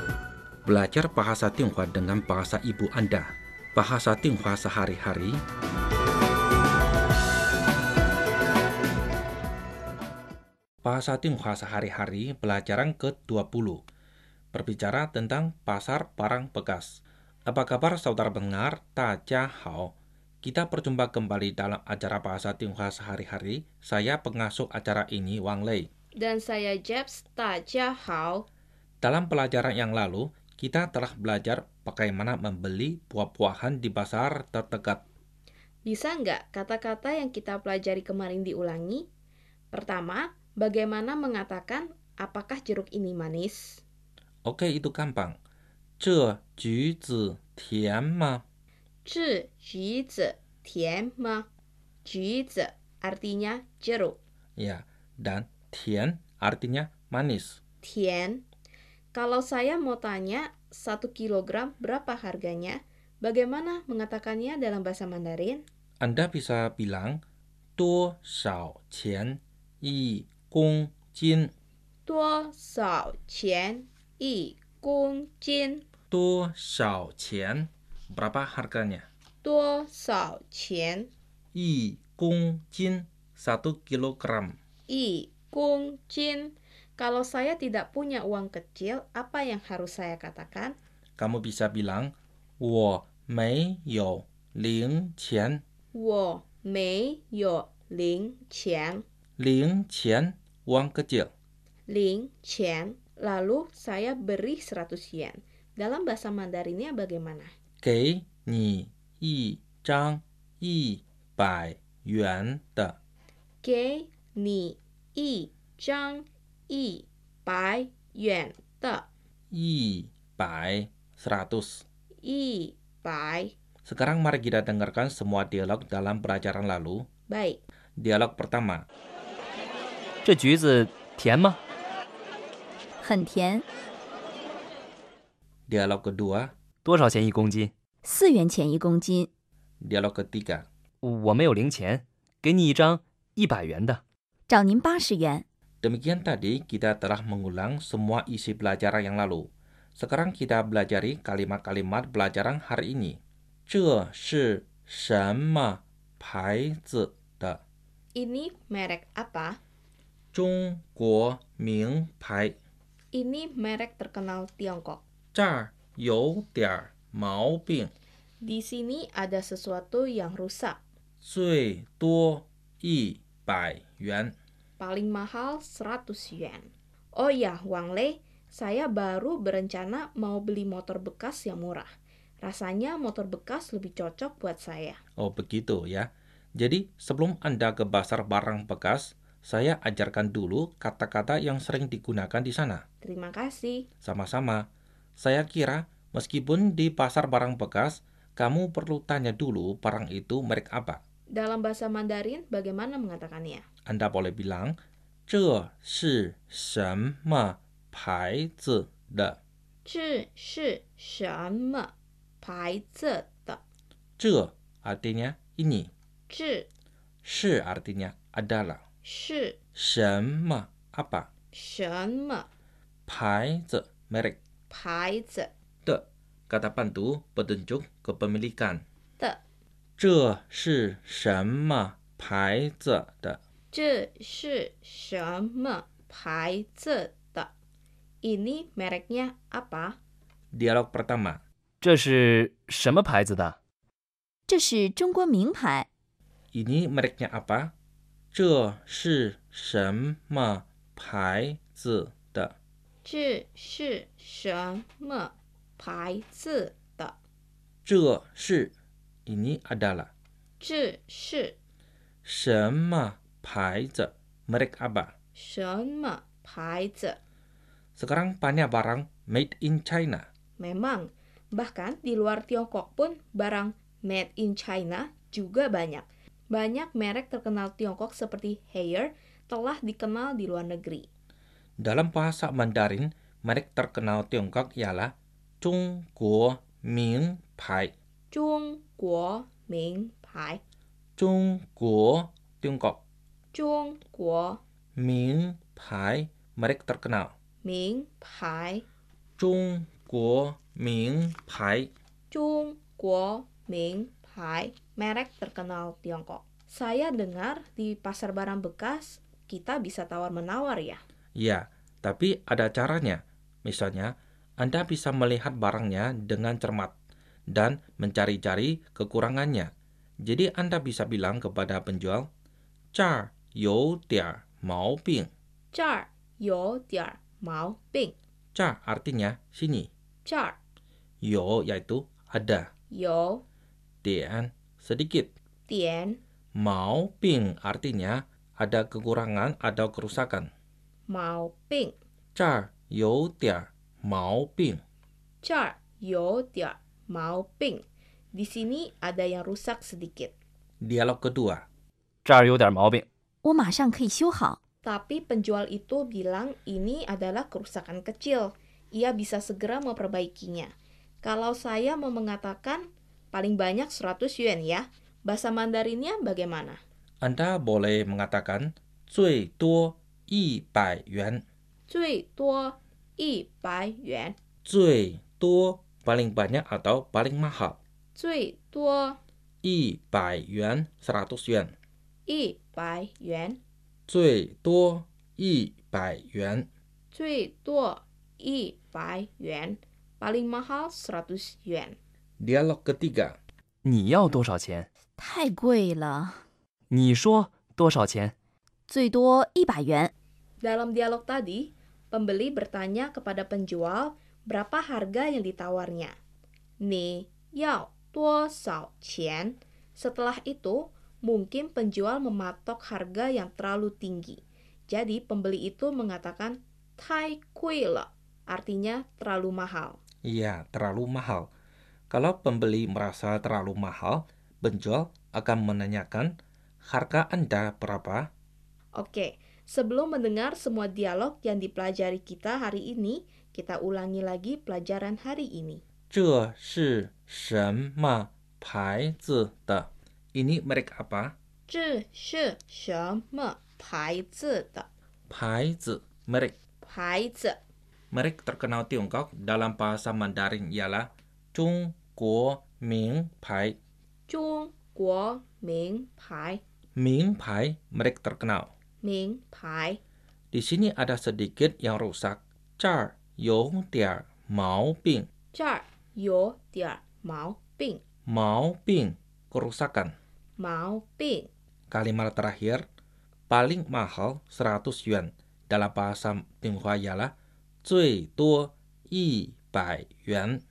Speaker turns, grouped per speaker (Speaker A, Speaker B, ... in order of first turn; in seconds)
Speaker A: 0.6-5.4, 10.8-13.8, 14.5-25.9, 29.0-35.0, 44.5-45.4, 46.0-48.4, 54.6-57.6, 66.0-67.2, 67.8-71.5, 76.1-79.1, 81.5-84.6, 91.2-95.6, 99.4-101.3, 107.8-113.0, 119.5-121.8, 123.8-127.1, 128.0-128.8, 135.7-136.5, 139.8-140.7, 145.8-157.6, 160.3-162.5, 165.3-167.9, 171.2-174.3, 185.2-192.8, 194.0-194.6, 195.2-201.0, 203.9-204.8, 205.3-209.4, 214.2-215.9, 217.2-218.8, 219.8-221.3, 223.1-224.4, 225.8-228.8, 230.0-233.4, 240.5-241.4, 246.5-247.7, 248.3-252.5, 257.9-258.7, 259.3-260.1, 262.2-265.1, 268.0-270.2, 281.8-287.9, 291.2-293.0, 295.0-297.3, 299.4-301.9, 311.4-316.9, 317.5-319.7, 320.2-322.3, 322.9-325.3, 328.6-329.9, 331.2-332.7, 334.0-335.3, 336.6-340.5, 342.4-344.8, 350.8-351.6, 367.2-371.4, 374.6-377.8, 379.6-381.8, 384.1-386.7, 392.4-393.4, 420.2-421.5, 422.1-426.4, 426.9-428.3, 436.1-441.3, 445.3-446.6, 448.1-453.8, 457.0-458.7, 460.5-465.3, 468.3-470.1, 471.9-472.9, 473.5-477.3, 477.8-480.6
Speaker B: 26.2-28.4, 35.8-39.0, 39.7-43.8, 49.0-51.5, 52.0-54.2, 57.8-58.4, 59.1-65.6, 72.1-75.8, 79.4-81.1, 84.9-90.8, 95.9-99.0, 101.9-107.5, 113.6-119.1, 122.2-123.5, 127.3-127.6, 158.1-159.6, 163.1-165.0, 168.4-170.8, 174.8-181.9, 182.4-185.0, 193.0-193.9, 201.3-203.6, 209.8-213.6, 216.3-216.7, 219.0-219.6, 221.5-222.5, 224.7-225.5, 233.7-237.5, 238.2-240.0, 253.0-257.2, 260.6-261.6, 265.4-267.2, 270.6-281.1, 288.3-290.6, 293.5-294.6, 297.6-298.9, 302.3-311.0, 325.7-328.1, 330.2-330.6, 332.9-333.4, 335.7-336.2, 341.1-342.0, 345.4-347.8, 348.4-350.3, 354.8-366.8, 371.9-374.4, 378.1-379.2, 382.3-383.6, 387.1-392.0, 400.6-406.1, 406.8-420.0, 428.9-435.8, 441.7-444.9, 446.8-447.6, 454.3-456.6, 459.0-460.0, 465.5-468.0, 470.6-471.5
Speaker C: 130.2-131.6, 136.8-137.7, 141.0-144.0, 241.8-243.6, 352.2-353.1, 393.9-394.9, 396.9-398.3
Speaker D: 133.0-133.6, 138.0-139.3, 144.5-145.4, 244.5-245.9, 353.4-354.6, 395.2-396.4, 398.9-400.1